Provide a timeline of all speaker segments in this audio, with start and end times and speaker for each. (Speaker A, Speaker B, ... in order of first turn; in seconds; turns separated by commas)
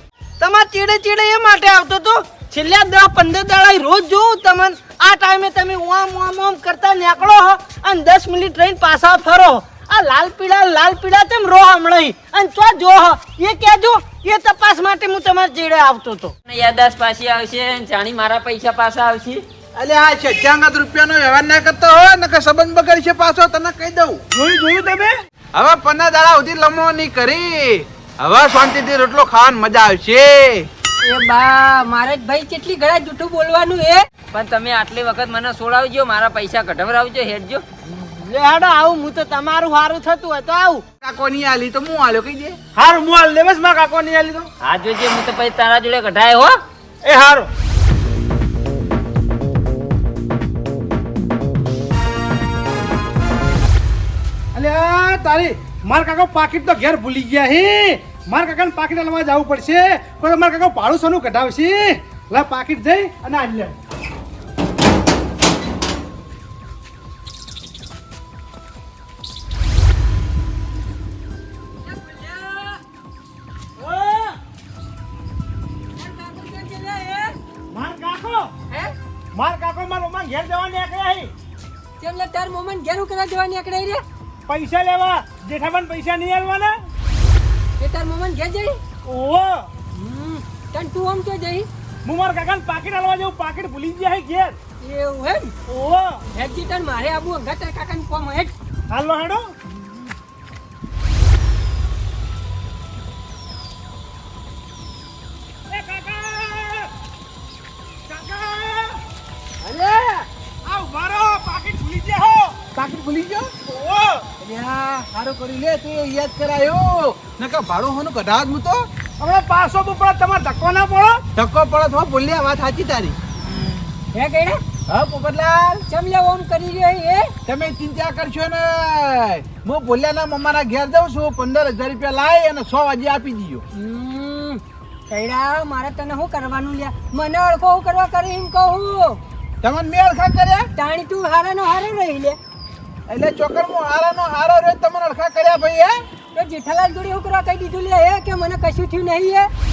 Speaker A: 0.4-16.3, Speaker B: 16.5-19.4, Speaker C: 19.8-24.2, Speaker D: 24.3-25.1, Speaker C: 25.6-30.7, Speaker E: 31.0-34.0, Speaker B: 34.3-37.6, Speaker A: 37.9-40.8, Speaker C: 41.0-42.6, Speaker D: 42.8-44.5, Speaker B: 44.6-46.6, Speaker D: 47.0-47.5, Speaker D: 54.5-63.8, Speaker E: 71.8-72.8, Speaker E: 73.8-74.4, Speaker E: 76.0-77.4, Speaker D: 77.7-78.5, Speaker D: 79.3-81.3, Speaker E: 82.0-84.0, Speaker D: 84.5-86.8, Speaker E: 87.8-88.8, Speaker D: 89.1-89.7, Speaker E: 89.9-91.7, Speaker D: 92.0-94.6, Speaker E: 94.8-95.5, Speaker D: 95.7-96.2, Speaker E: 96.3-98.5, Speaker D: 98.9-99.5, Speaker D: 105.7-106.9, Speaker D: 108.1-109.0, Speaker C: 109.6-110.3, Speaker D: 110.7-112.6, Speaker C: 112.7-113.5, Speaker D: 113.6-114.3, Speaker C: 114.4-118.9, Speaker D: 119.2-121.2, Speaker C: 121.3-123.2, Speaker E: 124.1-124.6, Speaker C: 124.9-125.8, Speaker E: 125.9-127.3, Speaker C: 127.5-133.6, Speaker E: 133.7-139.2, Speaker C: 139.6-140.7, Speaker E: 140.8-142.4, Speaker C: 143.1-146.0, Speaker E: 146.4-149.5